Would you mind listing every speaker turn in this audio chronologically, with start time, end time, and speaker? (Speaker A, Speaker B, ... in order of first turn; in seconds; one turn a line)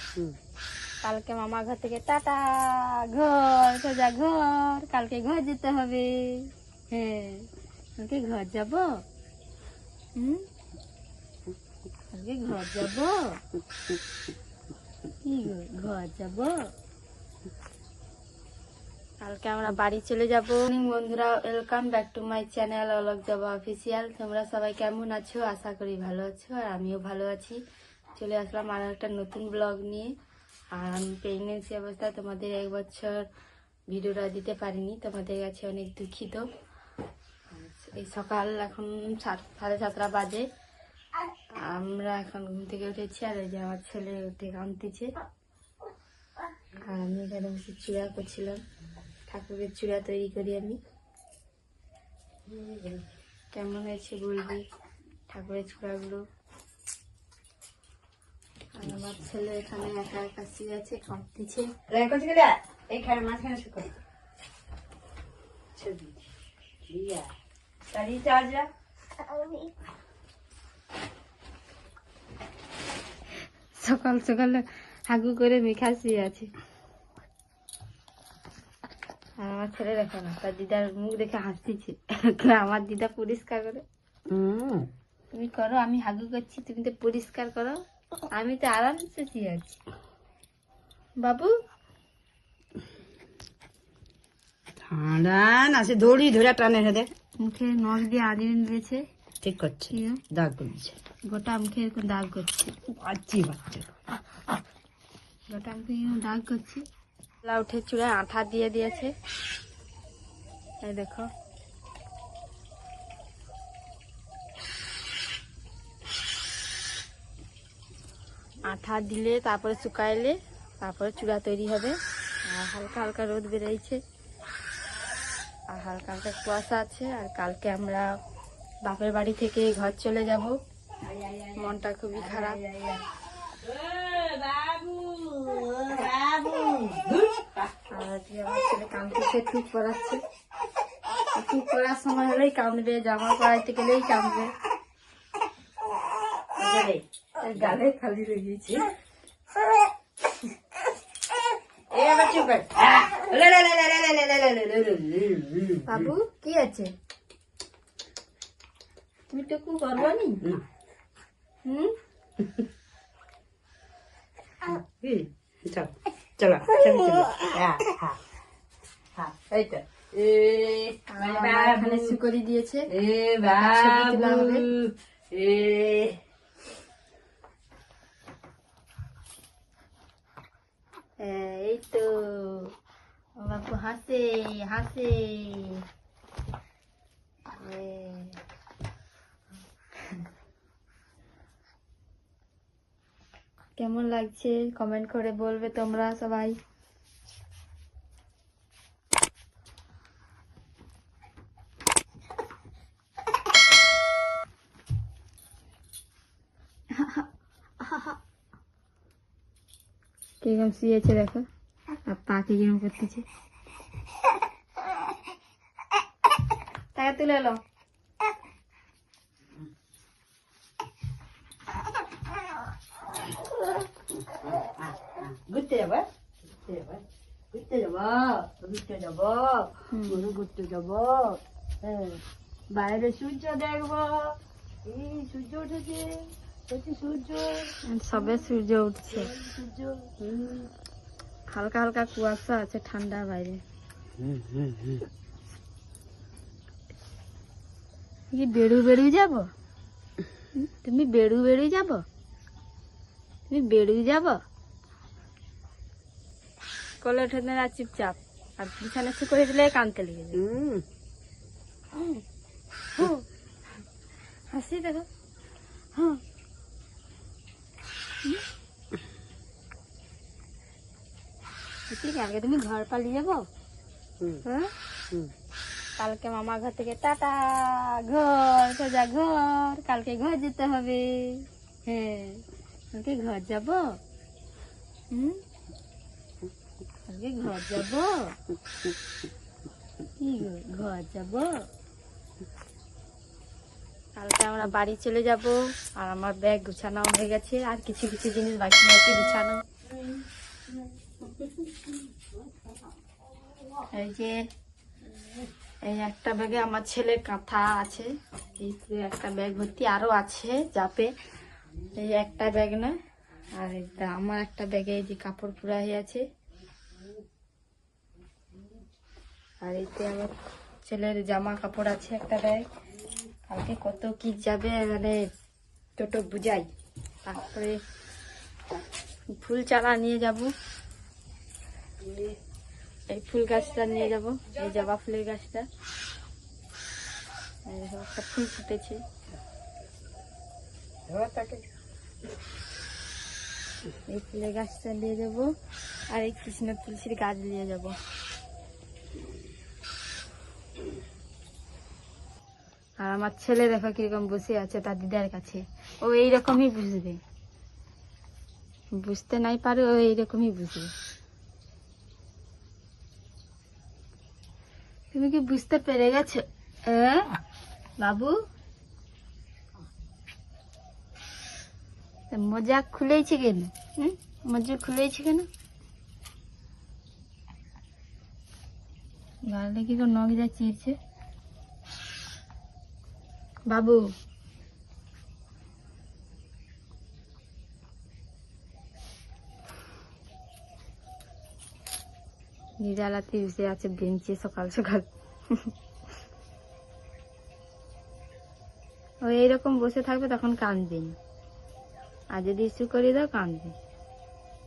Speaker A: 1.0-8.9
Speaker A: 10.2-10.4
Speaker A: 12.1-13.4
Speaker A: 15.2-16.6
Speaker A: 19.2-27.6
Speaker A: 28.2-30.1
Speaker A: 30.8-33.3
Speaker A: 33.9-36.5
Speaker A: 37.5-40.5
Speaker A: 41.5-45.1
Speaker A: 46.8-48.6
Speaker A: 49.3-50.8
Speaker B: 52.5-53.1
Speaker A: 53.5-54.6
Speaker A: 55.3-56.2
Speaker A: 58.8-61.7
Speaker B: 61.9-63.9
Speaker B: 65.8-66.2
Speaker B: 66.9-67.3
Speaker B: 67.9-68.7
Speaker A: 73.8-76.5
Speaker A: 79.4-83.8
Speaker B: 84.3-84.9
Speaker A: 85.3-87.8
Speaker A: 88.3-89.8
Speaker A: 91.2-91.5
Speaker B: 94.9-97.1
Speaker A: 97.4-99.0
Speaker B: 99.4-101.0
Speaker A: 99.9-100.2
Speaker A: 101.3-102.7
Speaker B: 102.9-103.9
Speaker A: 105.5-106.8
Speaker A: 107.4-109.1
Speaker A: 110.8-111.3
Speaker A: 118.7-124.0
Speaker A: 125.7-128.1
Speaker A: 128.9-130.6
Speaker B: 131.0-133.0
Speaker A: 131.6-132.6
Speaker B: 133.6-137.7
Speaker A: 137.9-140.2
Speaker A: 141.3-144.5
Speaker B: 146.6-147.0
Speaker A: 147.4-148.8
Speaker B: 147.6-147.8
Speaker B: 151.9-156.2
Speaker A: 155.9-156.9
Speaker A: 159.3-160.4
Speaker A: 161.7-161.9
Speaker B: 162.4-162.7
Speaker B: 164.6-168.2
Speaker B: 169.2-172.2
Speaker A: 171.1-172.9
Speaker B: 172.9-176.2
Speaker A: 173.5-174.7
Speaker A: 181.2-182.7
Speaker A: 183.4-185.8
Speaker A: 187.5-188.4
Speaker A: 193.8-196.6
Speaker A: 206.9-207.3
Speaker A: 207.8-208.2
Speaker A: 210.4-211.5
Speaker A: 212.1-213.3
Speaker A: 216.9-217.6
Speaker B: 224.5-232.2
Speaker A: 229.9-230.3
Speaker B: 232.7-234.3
Speaker B: 234.9-237.7
Speaker A: 237.8-239.3
Speaker B: 239.2-240.7
Speaker A: 241.5-243.6
Speaker B: 244.2-245.1
Speaker A: 248.3-249.5
Speaker A: 250.6-252.0
Speaker A: 253.5-254.4
Speaker A: 257.0-260.4
Speaker B: 260.3-260.9
Speaker A: 261.9-262.2
Speaker A: 262.9-263.3
Speaker A: 264.5-265.1
Speaker A: 265.9-266.2
Speaker A: 271.9-273.5
Speaker A: 274.4-274.7
Speaker A: 276.0-283.8
Speaker A: 285.1-285.4
Speaker A: 287.1-288.4
Speaker A: 290.2-291.6
Speaker A: 294.2-299.6
Speaker A: 303.9-304.4
Speaker A: 305.9-311.1
Speaker A: 311.9-312.9
Speaker A: 313.6-316.2
Speaker A: 319.6-320.3
Speaker A: 320.9-322.6
Speaker A: 323.5-325.2
Speaker A: 326.0-326.7
Speaker A: 327.2-327.8
Speaker A: 329.3-330.5
Speaker B: 332.0-332.4
Speaker A: 333.1-335.7
Speaker A: 337.7-339.0
Speaker B: 341.1-341.6
Speaker A: 344.1-345.5
Speaker A: 346.1-347.9
Speaker A: 353.0-357.2
Speaker A: 358.9-360.9
Speaker A: 365.1-367.4
Speaker A: 368.0-368.4
Speaker A: 372.3-375.5
Speaker A: 379.5-381.0
Speaker A: 383.7-384.1
Speaker A: 392.8-395.7
Speaker A: 399.2-401.2
Speaker A: 402.3-403.8